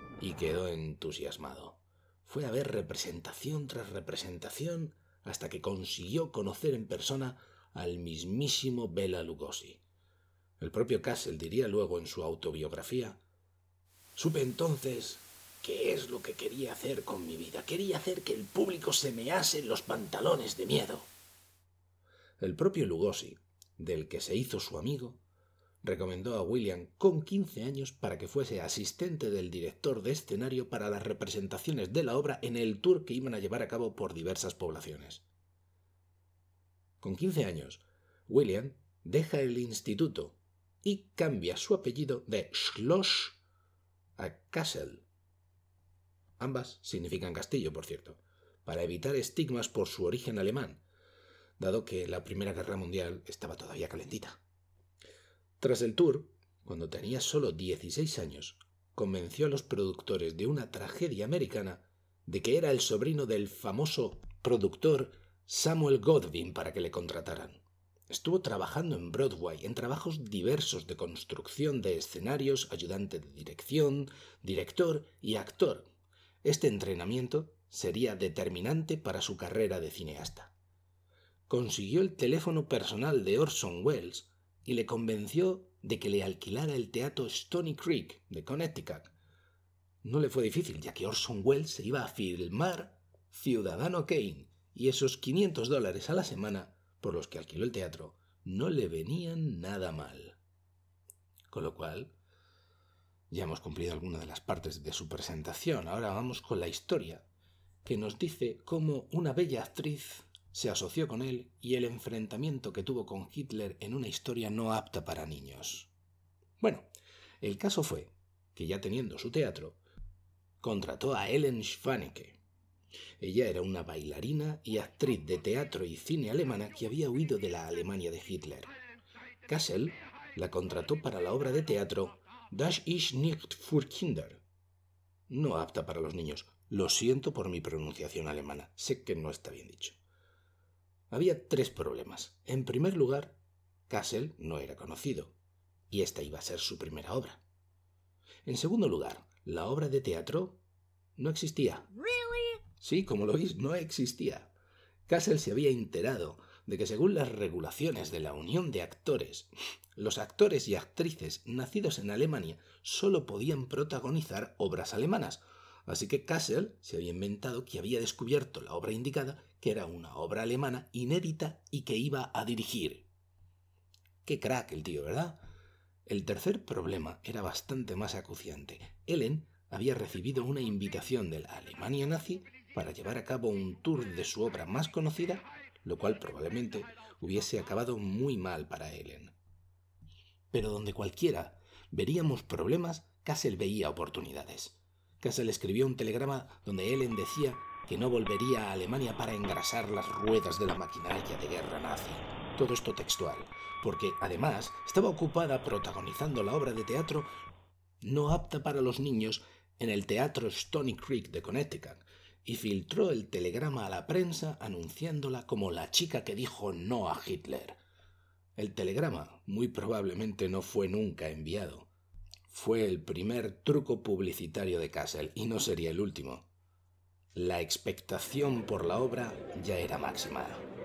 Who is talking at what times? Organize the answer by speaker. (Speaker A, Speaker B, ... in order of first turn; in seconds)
Speaker A: 0.2-9.8, 10.6-13.2, 14.2-21.1, 22.4-25.2, 25.8-35.2, 37.0-43.4, 44.2-45.0, 46.4-50.8, 51.6-54.4, 55.6-75.9, 76.4-80.5, 81.5-89.1, 90.0-100.4, 101.5-102.1, 103.3-107.2, 107.8-115.9, 116.6-116.9, 117.4-119.8, 120.6-122.4, 123.2-128.7, 129.5-134.4, 135.3-140.0, 141.1-145.4, 145.9-147.4, 148.4-150.6, 151.2-154.5, 155.1-173.1, 174.2-175.4, 176.1-189.3, 190.5-207.3, 208.0-217.8, 218.6-221.9, 222.5-226.4, 227.3-230.6